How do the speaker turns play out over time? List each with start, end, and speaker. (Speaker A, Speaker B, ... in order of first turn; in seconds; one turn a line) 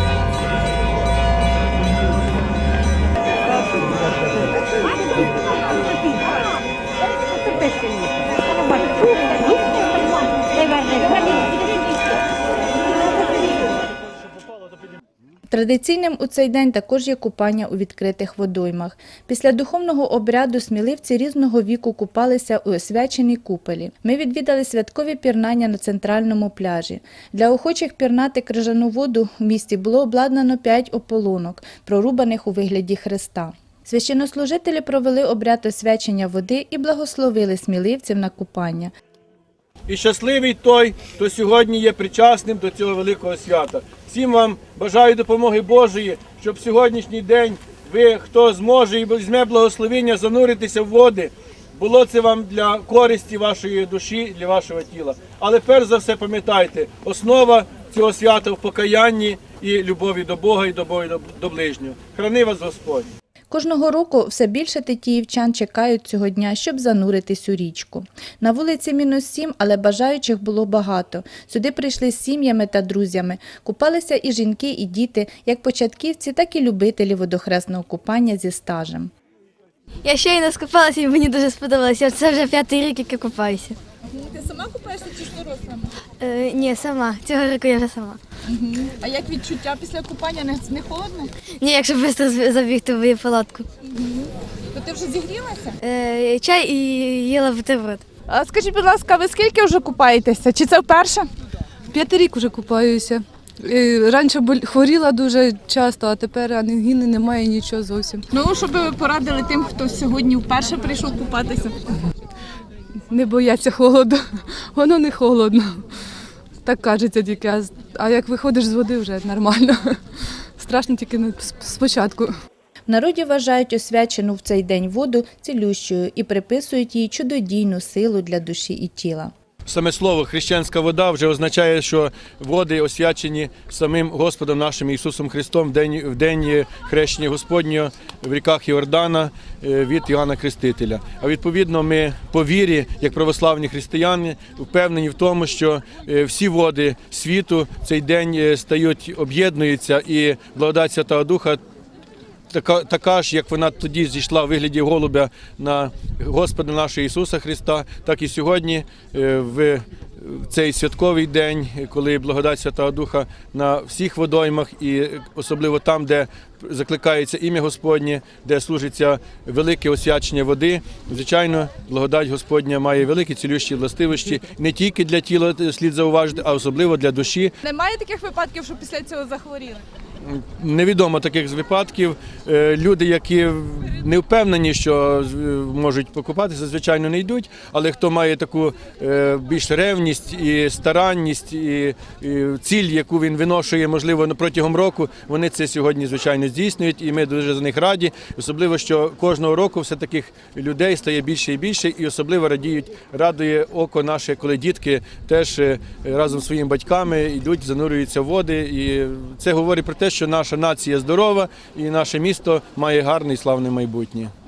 Speaker A: 15.5-38.9
Speaker B: 39.9-63.1
Speaker A: 63.5-79.1
Speaker C: 80.0-83.8
Speaker D: 84.1-85.9
Speaker C: 86.2-88.2
Speaker D: 88.5-91.3
Speaker C: 91.6-93.7
Speaker D: 93.8-95.8
Speaker C: 95.8-98.0
Speaker D: 98.3-101.3
Speaker E: 101.9-108.2
Speaker D: 108.3-111.8
Speaker E: 113.1-114.2
Speaker E: 114.7-115.8
Speaker E: 116.6-120.0
Speaker E: 120.6-122.3
Speaker A: 122.9-129.3
Speaker B: 129.7-151.6
Speaker B: 152.5-177.5
Speaker D: 177.6-179.8
Speaker B: 180.2-214.3